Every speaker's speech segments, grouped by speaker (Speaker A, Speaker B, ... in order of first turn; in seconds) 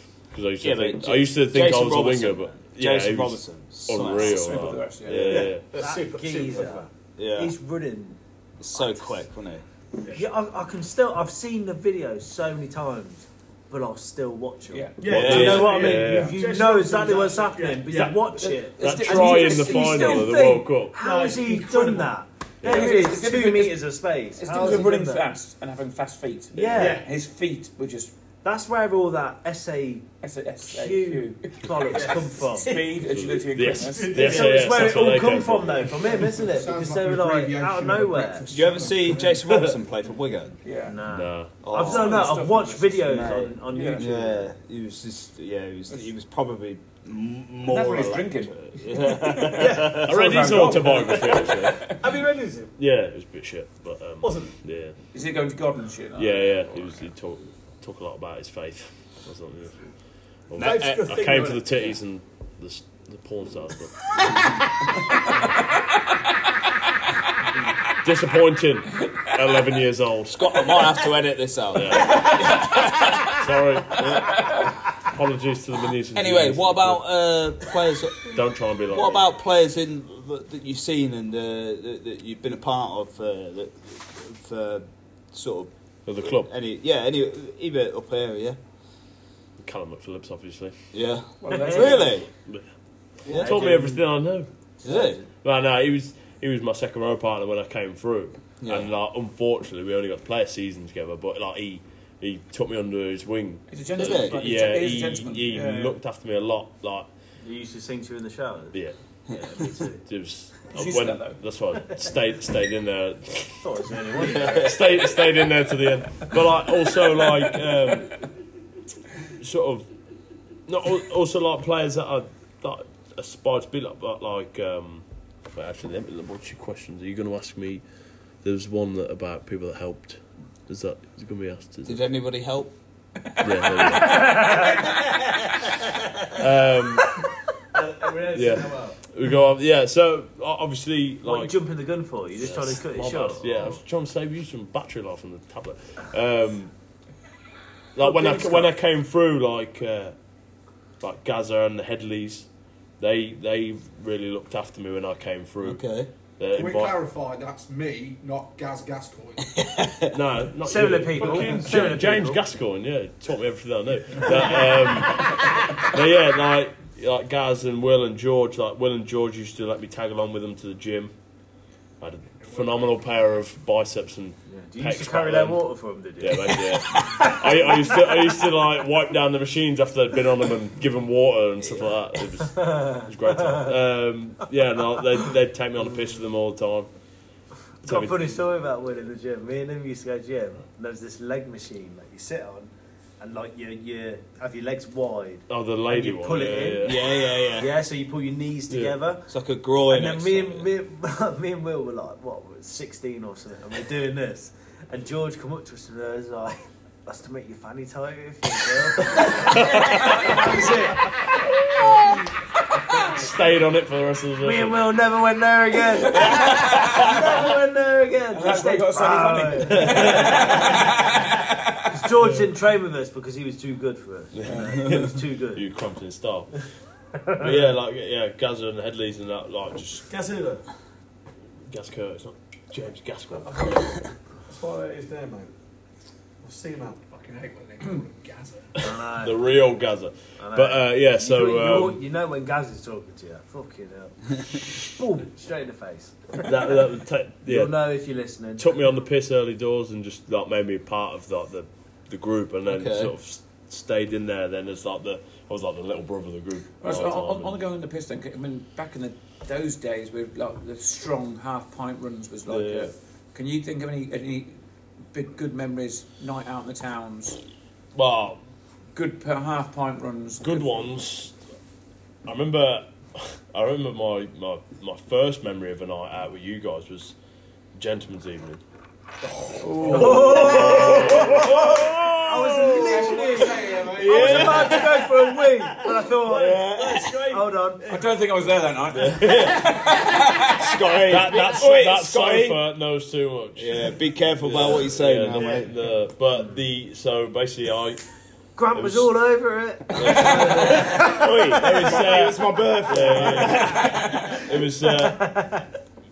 Speaker A: 0.3-5.7, 15.1-16.4, 18.8-20.9, 22.6-23.0, 26.6-26.9, 33.0-36.3, 41.1-41.5, 50.0-52.0, 52.8-55.0, 56.2-64.4, 68.0-70.8, 71.7-77.2, 78.2-79.3, 86.0-86.5, 89.6-90.7, 93.2-94.5, 95.4-107.1, 109.5-118.3, 119.4-119.9, 120.7-127.8, 128.4-132.0, 133.4-134.5, 136.3-137.2, 138.3-141.6, 142.4-146.7, 147.9-150.1, 151.0-152.5, 153.0-155.8, 156.4-157.0, 160.1-171.1, 172.0-175.6, 176.2-186.9, 187.8-188.4, 195.5-197.1, 198.7-198.9, 209.0-212.2, 212.9-214.9, 216.2-217.1, 219.8-220.6, 224.3-226.6, 227.4-230.1, 231.7-233.9, 238.8-242.0, 246.4-247.8, 248.6-257.6, 262.5-262.9, 267.9-268.4, 270.4-271.3, 272.3-277.1, 277.7-278.6, 279.9-282.4, 284.1-284.9, 288.9-289.8, 291.1-298.0, 298.7-299.1, 299.9-305.4
Speaker B: 0.6-5.5, 7.2-7.5, 8.6-9.6, 15.1-15.7, 38.5-40.6, 41.6-42.3, 43.0-50.1, 70.3-73.3, 74.0-74.8, 76.1-85.7, 86.2-88.6, 90.9-92.3, 93.3-93.7, 94.8-95.2, 98.6-98.9, 104.0-104.4, 114.2-114.7, 131.9-132.7, 155.6-156.1, 159.6-160.1, 196.8-197.8, 199.3-200.7, 252.7-253.1, 280.2-282.6, 284.0-287.2, 290.1-292.6, 293.6-295.7, 300.4-304.4
Speaker C: 3.9-5.5, 14.7-15.1, 18.4-20.3, 22.6-28.1, 30.2-34.5, 40.6-41.0, 41.7-44.1, 47.6-52.0, 55.1-57.1, 65.1-66.0, 72.1-72.6, 74.2-74.6, 91.4-92.2, 103.7-106.0, 110.7-111.4, 133.3-134.7, 216.5-217.0, 218.3-221.9, 256.8-264.6, 265.1-267.4, 268.9-270.9, 279.6-280.7, 287.9-290.7
Speaker D: 5.1-6.9, 15.0-18.3, 21.0-22.1, 26.7-27.1, 31.8-35.3, 49.6-52.7, 54.2-54.5, 60.5-61.7, 137.7-139.0, 148.0-148.7, 230.1-230.6, 233.4-233.9, 234.4-235.5, 236.4-237.0, 284.1-284.5, 285.8-288.5
Speaker E: 5.8-8.2, 8.7-9.2, 10.1-25.3, 26.6-27.0, 28.4-30.1, 30.6-32.8, 34.2-38.6, 40.8-44.4, 91.5-92.0, 93.3-94.0, 94.8-95.3, 107.4-108.8, 109.3-110.0, 113.6-115.1, 134.1-134.9, 141.2-143.8, 160.6-162.4, 174.5-178.2, 182.3-183.7, 187.8-199.3, 199.9-211.3, 212.9-213.2, 214.4-220.8, 221.9-225.6, 227.2-227.7, 238.8-239.4, 240.4-246.8, 247.4-248.9, 279.8-288.0, 298.6-302.1, 303.0-303.6, 304.9-305.7
Speaker F: 36.2-39.5, 156.5-159.6, 172.4-172.9, 237.0-238.8, 279.2-280.2, 282.6-284.6